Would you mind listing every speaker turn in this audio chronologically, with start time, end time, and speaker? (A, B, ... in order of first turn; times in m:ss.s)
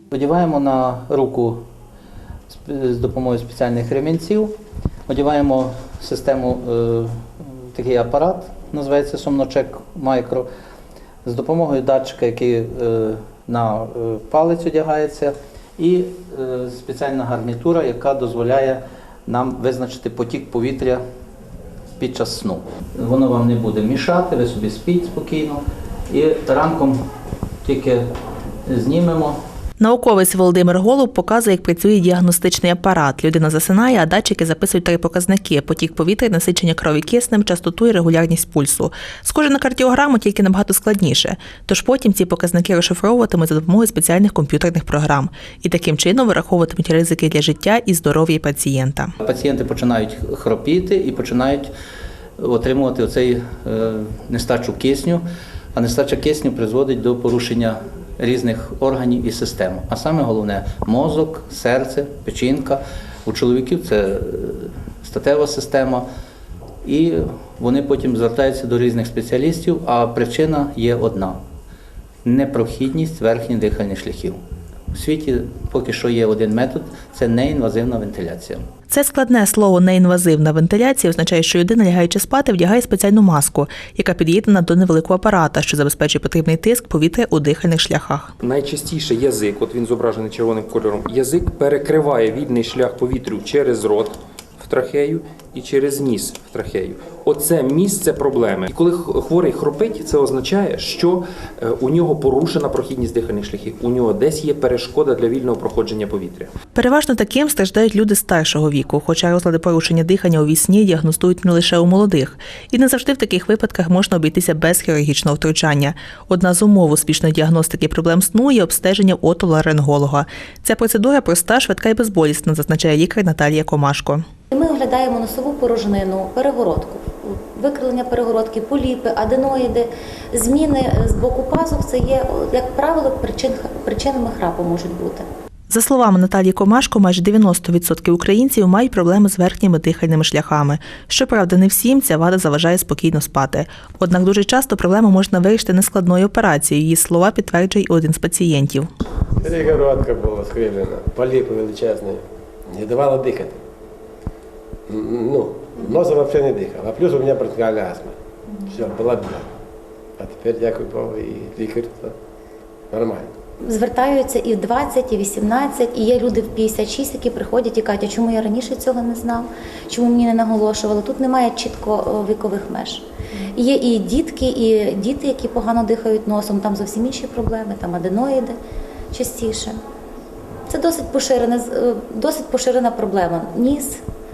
0:00.1-0:01.6 A
0:02.5-0:04.5 A
0:05.1-0:07.2 A
0:07.7-0:10.5 A
0:11.2-0:21.0 A
0:22.0-0:27.0 A
0:27.6-0:28.0 A
0:28.7-0:29.4 A
0:29.8-0:49.1 B
0:49.2-0:51.7 A
0:52.4-0:55.2 A
0:55.7-1:06.1 A
1:06.8-1:11.4 A
1:12.2-1:14.4 A
1:14.9-1:18.6 A
1:18.9-1:28.3 B
1:28.4-1:46.6 C
1:46.8-2:04.2 B
2:04.5-2:15.3 D
2:15.7-2:28.9 B
2:29.4-2:33.6 E
2:34.9-2:39.5 E
2:40.2-2:42.2 E
2:42.9-2:43.3 E
2:43.6-2:58.6 D
2:59.1-2:59.8 D
3:00.7-3:04.0 D